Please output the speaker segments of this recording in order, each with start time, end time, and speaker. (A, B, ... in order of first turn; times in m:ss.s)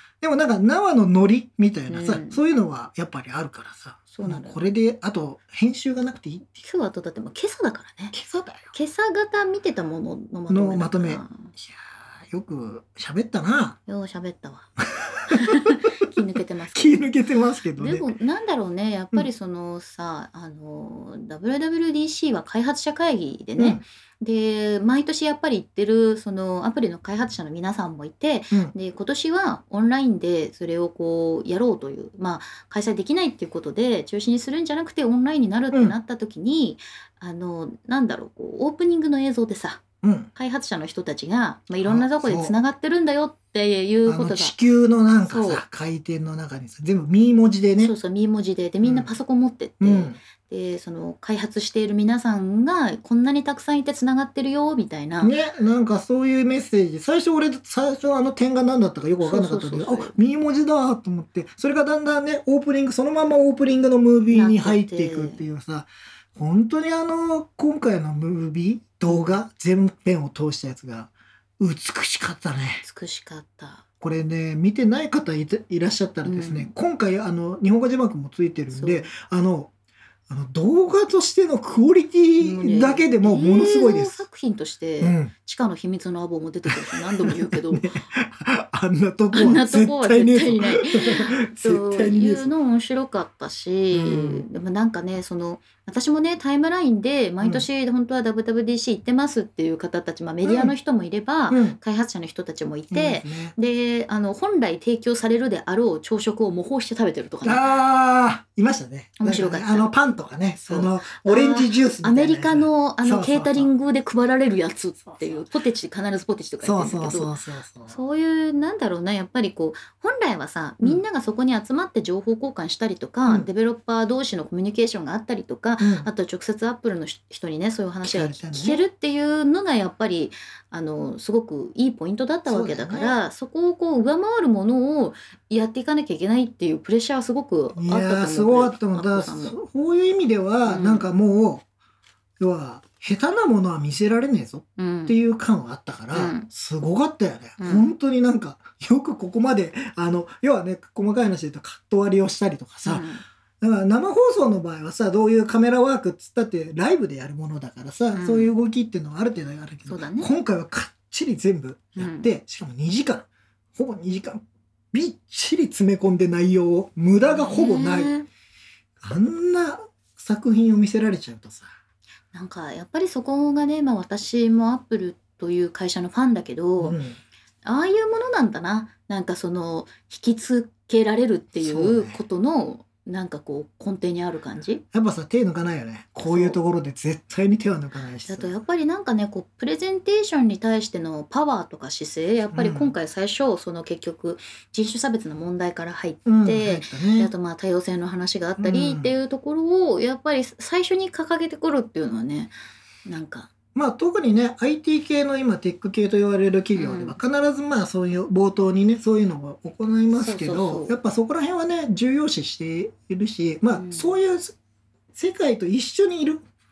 0:00.2-0:06.6 A
0:01.9-0:02.4 B
0:04.1-0:04.6 B
0:06.6-0:08.2 B
0:08.1-0:08.7 A
0:08.7-0:11.5 B
0:10.5-0:13.8 A
0:13.9-0:14.7 B
0:14.8-0:15.6 A
0:15.3-0:17.1 B
0:16.7-0:18.1 A
0:17.8-0:39.8 B
0:23.6-0:23.8 A
0:40.0-0:40.3 A
0:40.4-0:44.6 B
0:41.8-0:42.5 A
0:44.1-0:47.9 A
0:45.3-0:45.6 B
0:47.8-0:55.4 B
0:48.8-0:49.1 A
0:49.8-0:50.2 A
0:55.2-1:12.8 A
0:59.2-1:00.1 B
1:04.3-1:05.4 B
1:09.1-1:09.4 B
1:12.8-1:13.8 B
1:14.0-1:19.7 A
1:16.2-1:16.7 B
1:18.7-1:19.1 B
1:20.3-1:24.2 A
1:22.4-1:28.0 B
1:25.0-1:25.3 A
1:26.7-1:32.5 A
1:29.3-1:47.7 B
1:33.9-1:34.5 A
1:40.4-1:40.7 A
1:41.5-1:41.8 A
1:42.9-1:43.6 A
1:47.4-1:53.7 A
1:49.2-1:49.9 B
1:50.6-1:57.3 B
1:56.6-1:58.0 A
1:57.9-2:19.6 B
2:05.8-2:06.1 A
2:08.0-2:08.9 A
2:12.5-2:13.2 A
2:17.7-2:21.6 A
2:20.6-2:21.1 B
2:22.4-2:33.1 A
2:24.8-2:25.2 B
2:26.1-2:26.5 B
2:27.6-2:27.9 B
2:32.8-2:33.2 B
2:33.6-2:48.2 A
2:38.1-2:38.5 B
2:39.9-2:40.3 B
2:42.0-2:42.3 B
2:47.2-2:48.3 B
2:49.0-2:51.7 A
2:52.3-2:57.0 B
2:56.8-2:57.2 A
2:57.6-3:04.8 B
3:01.6-3:02.2 A
3:04.9-3:08.5 A
3:06.2-3:06.6 B
3:08.3-3:22.5 B
3:12.5-3:13.0 A
3:16.3-3:17.3 A
3:18.6-3:19.1 A
3:23.0-3:23.5 B
3:23.8-3:34.6 A
3:26.8-3:27.2 B
3:30.2-3:31.0 B
3:33.7-3:34.2 B
3:35.1-3:36.4 A